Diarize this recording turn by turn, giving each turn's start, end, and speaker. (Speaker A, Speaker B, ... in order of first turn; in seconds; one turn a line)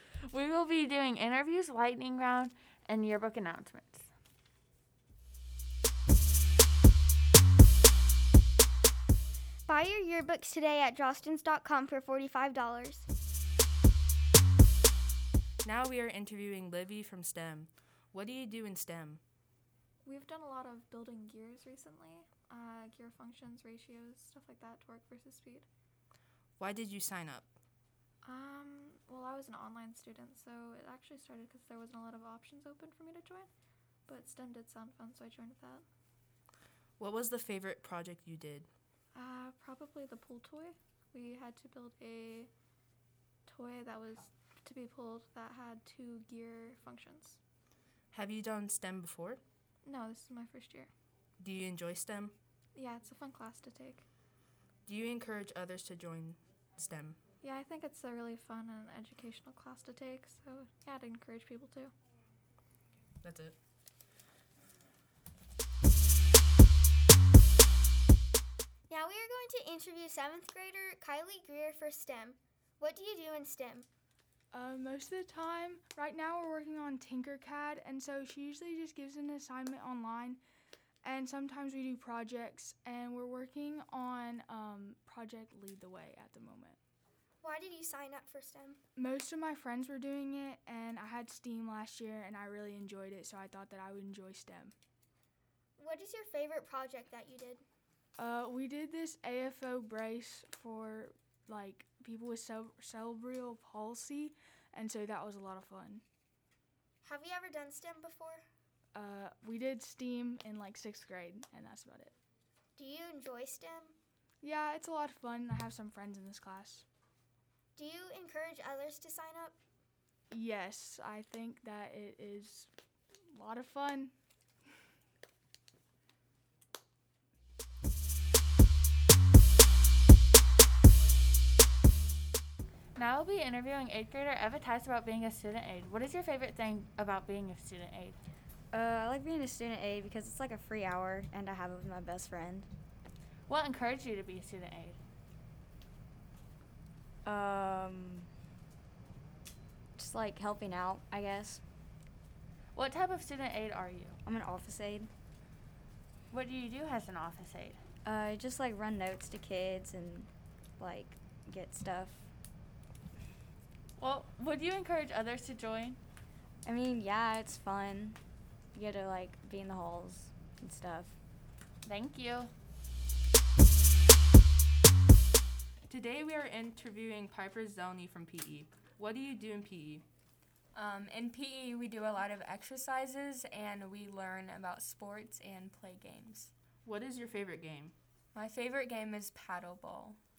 Speaker A: 0.3-4.1
Speaker B: 9.7-13.1
Speaker C: 15.6-19.2
Speaker D: 20.1-25.6
Speaker C: 26.6-27.5
Speaker D: 28.2-33.5
Speaker D: 34.1-35.9
Speaker C: 37.0-38.7
Speaker D: 39.1-42.5
Speaker D: 43.5-47.4
Speaker C: 48.1-49.4
Speaker D: 49.9-50.9
Speaker C: 51.4-52.3
Speaker D: 52.8-54.1
Speaker C: 54.9-57.2
Speaker D: 57.4-61.9
Speaker C: 63.2-63.5
Speaker B: 68.9-73.9
Speaker E: 74.5-80.4
Speaker E: 81.0-86.8
Speaker B: 87.4-88.8
Speaker E: 89.0-94.7
Speaker B: 95.8-97.6
Speaker E: 98.2-106.0
Speaker B: 107.0-108.4
Speaker E: 109.0-112.1
Speaker B: 112.8-114.0
Speaker E: 114.4-116.8
Speaker B: 117.8-119.6
Speaker E: 120.3-122.7
Speaker E: 123.3-124.1
Speaker A: 133.0-138.2
Speaker F: 138.7-142.7
Speaker A: 143.5-145.0
Speaker F: 147.2-148.3
Speaker F: 150.0-151.6
Speaker A: 152.7-154.2
Speaker F: 154.2-155.1
Speaker A: 156.3-157.8
Speaker F: 158.1-162.3
Speaker A: 164.0-166.0
Speaker F: 166.7-168.2
Speaker F: 168.7-171.2
Speaker A: 171.8-172.5
Speaker C: 175.9-180.0
Speaker G: 180.8-186.5
Speaker C: 186.9-187.9
Speaker G: 188.3-190.2